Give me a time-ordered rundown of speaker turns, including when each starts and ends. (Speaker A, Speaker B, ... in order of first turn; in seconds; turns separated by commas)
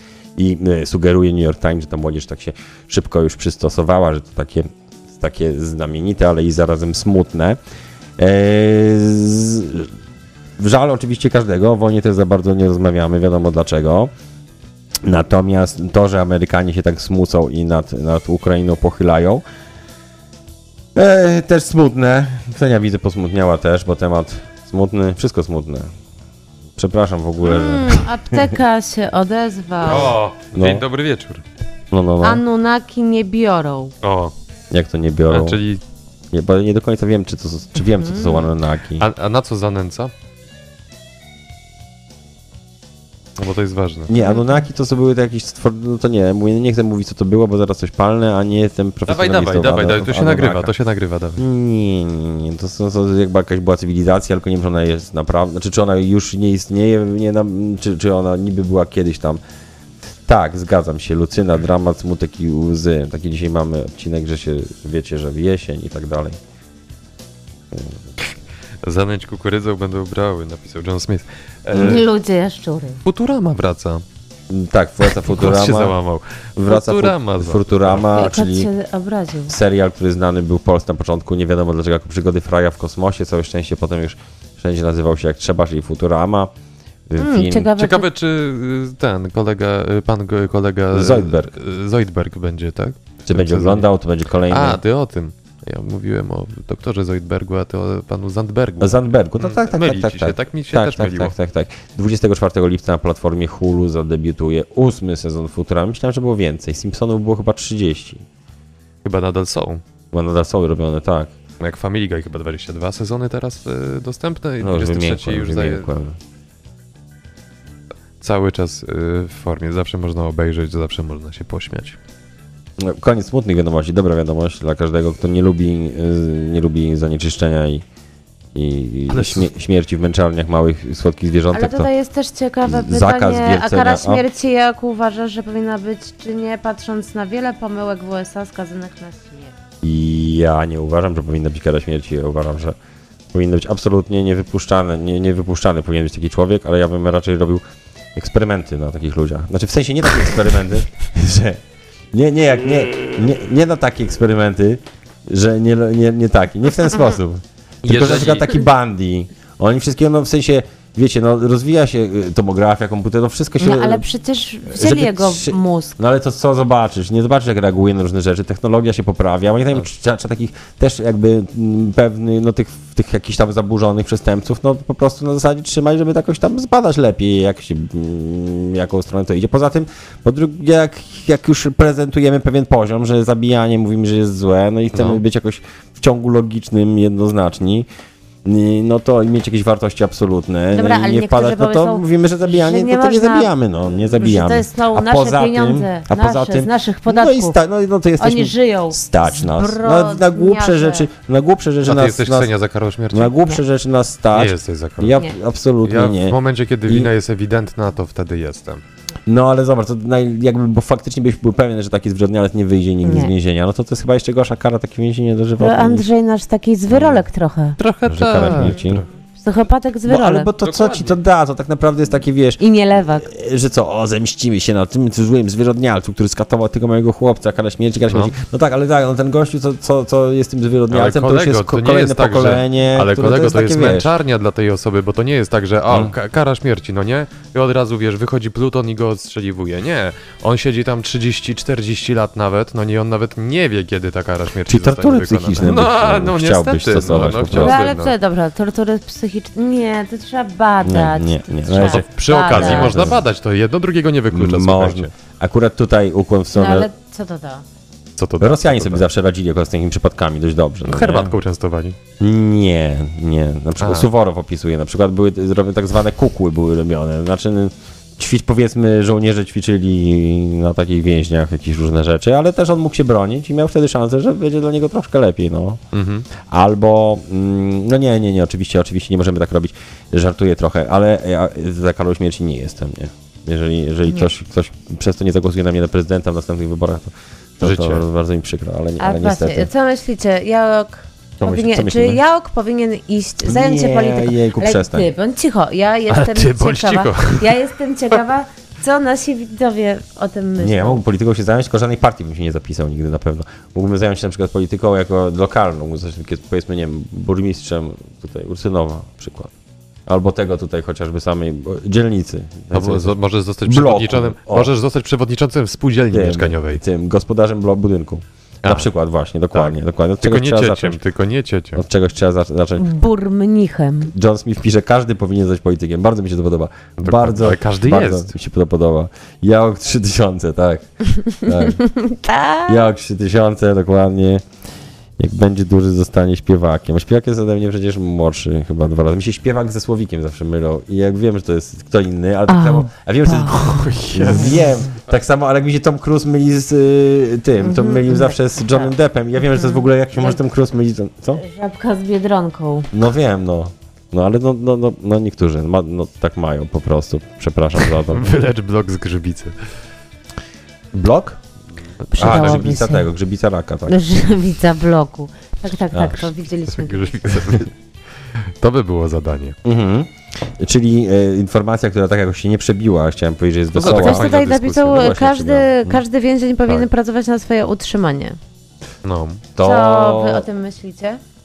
Speaker A: 0.3-7.6, Speaker A: 8.2-9.9, Speaker A: 10.6-14.1, Speaker A: 15.0-19.4, Speaker A: 20.9-25.9, Speaker A: 26.8-28.6, Speaker B: 27.4-30.1, Speaker C: 29.8-31.4, Speaker A: 30.5-30.8, Speaker A: 31.9-32.4, Speaker B: 32.2-33.9, Speaker C: 34.0-34.3, Speaker A: 34.7-35.6, Speaker C: 35.3-35.8, Speaker A: 36.3-39.1, Speaker B: 37.8-38.4, Speaker C: 39.0-40.1, Speaker C: 43.4-44.1, Speaker A: 44.1-50.7, Speaker B: 44.1-44.6, Speaker C: 49.1-51.4, Speaker A: 51.4-59.4, Speaker A: 60.2-66.4, Speaker C: 68.8-72.0, Speaker A: 71.7-72.0, Speaker B: 71.8-73.0, Speaker C: 73.0-74.0, Speaker A: 74.5-76.0, Speaker C: 75.1-78.1, Speaker A: 76.5-78.7, Speaker B: 78.1-79.5, Speaker A: 79.5-86.5, Speaker A: 87.1-87.7, Speaker B: 87.2-88.1, Speaker C: 87.8-93.9, Speaker A: 90.9-91.5, Speaker A: 93.3-94.8, Speaker C: 94.5-101.3, Speaker A: 98.8-108.2, Speaker C: 109.0-109.8, Speaker A: 110.1-111.3, Speaker C: 111.6-115.9, Speaker A: 114.6-116.2, Speaker C: 118.2-122.0, Speaker A: 122.8-127.8, Speaker A: 128.5-131.9, Speaker C: 129.1-129.5, Speaker B: 131.5-139.5, Speaker A: 132.7-134.2, Speaker A: 139.8-142.8, Speaker A: 143.3-147.6, Speaker A: 148.1-164.0, Speaker C: 157.8-158.7, Speaker B: 163.6-166.0, Speaker A: 164.7-187.9, Speaker C: 184.9-185.2, Speaker A: 188.4-202.5, Speaker B: 190.7-193.5, Speaker B: 194.2-197.6, Speaker B: 198.2-201.1, Speaker C: 201.8-203.3, Speaker A: 203.1-207.1, Speaker C: 204.3-205.2, Speaker C: 205.8-208.8, Speaker A: 209.2-216.1, Speaker B: 213.0-213.3, Speaker B: 215.6-217.8, Speaker A: 216.9-217.2, Speaker C: 217.8-219.1, Speaker A: 218.1-219.1, Speaker B: 218.4-218.7, Speaker B: 219.4-220.5, Speaker A: 220.1-234.1, Speaker C: 220.6-221.2, Speaker B: 222.6-223.3, Speaker C: 230.9-248.1, Speaker A: 235.9-236.1, Speaker A: 244.7-247.8, Speaker B: 247.5-253.1, Speaker A: 250.8-253.3, Speaker C: 251.8-255.1, Speaker A: 254.3-256.9, Speaker B: 256.5-257.6, Speaker C: 258.2-259.0, Speaker A: 258.4-261.3, Speaker C: 260.9-262.0, Speaker A: 262.2-275.8, Speaker C: 263.8-264.1, Speaker C: 275.9-276.3, Speaker A: 276.4-289.7, Speaker C: 287.6-288.0, Speaker B: 289.0-301.0, Speaker A: 291.4-292.2, Speaker A: 293.4-295.1, Speaker C: 296.1-297.7, Speaker A: 300.6-309.5, Speaker A: 310.1-314.7, Speaker C: 312.7-316.8, Speaker A: 316.1-321.0, Speaker C: 318.6-318.9, Speaker C: 319.5-321.8, Speaker A: 321.8-322.9, Speaker B: 322.8-324.1, Speaker A: 324.1-331.8, Speaker C: 327.0-328.3, Speaker B: 331.4-332.9, Speaker A: 332.6-334.4, Speaker A: 335.2-351.4, Speaker B: 342.5-344.6, Speaker C: 343.5-344.7, Speaker B: 347.6-348.9, Speaker B: 349.5-350.4, Speaker B: 351.4-352.9, Speaker A: 352.9-358.3, Speaker C: 357.8-359.6, Speaker A: 360.9-361.4, Speaker B: 362.1-363.1, Speaker A: 362.2-364.0, Speaker C: 362.2-362.5, Speaker B: 363.9-367.3, Speaker A: 365.9-366.2, Speaker C: 366.7-367.7, Speaker C: 368.6-369.6, Speaker A: 369.6-376.0, Speaker C: 373.7-375.2, Speaker B: 373.8-378.4, Speaker C: 379.0-379.4, Speaker A: 379.6-380.4, Speaker B: 379.6-381.2